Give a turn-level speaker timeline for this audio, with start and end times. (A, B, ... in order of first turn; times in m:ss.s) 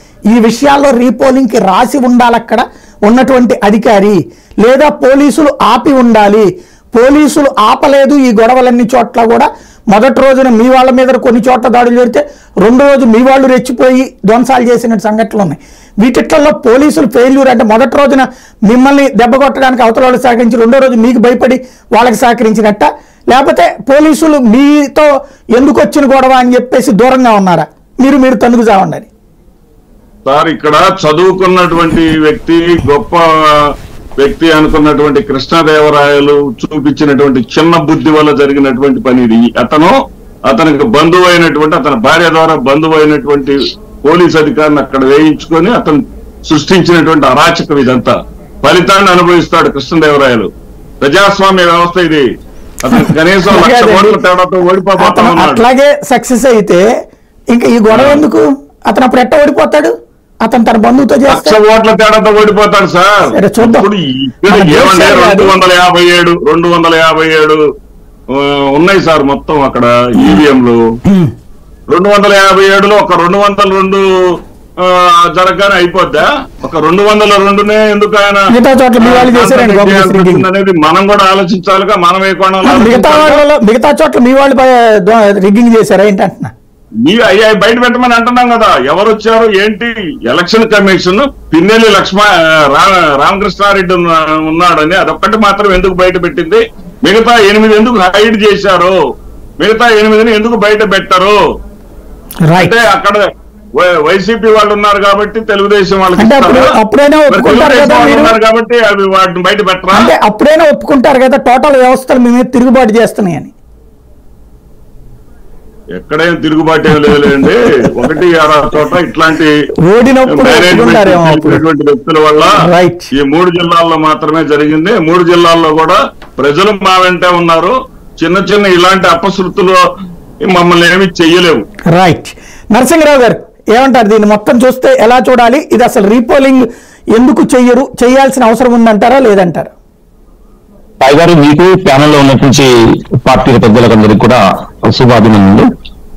0:00.3-0:29.1 A
0:30.3-0:33.6 B
0:34.2-0:40.0 B
0:40.5-0:50.5 B
0:51.0-0:52.3 B
0:52.8-0:55.6 B
0:52.9-0:54.2 A
0:55.0-0:56.8 A
0:57.5-0:59.9 A
0:57.9-0:58.2 B
1:00.4-1:01.6 A
1:01.3-1:07.6 B
1:03.3-1:03.9 A
1:04.5-1:05.6 A
1:08.4-1:10.8 B
1:11.9-1:14.0 B
1:14.8-1:18.4 B
1:18.5-1:20.4 A
1:19.0-1:23.4 B
1:22.6-1:26.5 A
1:27.0-1:39.0 B
1:39.6-1:41.4 B
1:42.5-1:42.8 A
1:42.6-1:43.3 B
1:43.8-1:46.6 B
1:46.2-1:48.4 A
1:47.3-1:50.1 B
1:49.9-1:53.5 A
1:56.0-1:59.5 B
1:57.0-1:57.5 A
1:59.9-2:01.6 A
2:00.3-2:02.5 B
2:02.5-2:03.1 A
2:03.2-2:09.8 B
2:10.5-2:11.6 B
2:11.9-2:19.7 A
2:21.0-2:22.7 C
2:23.2-2:25.7 C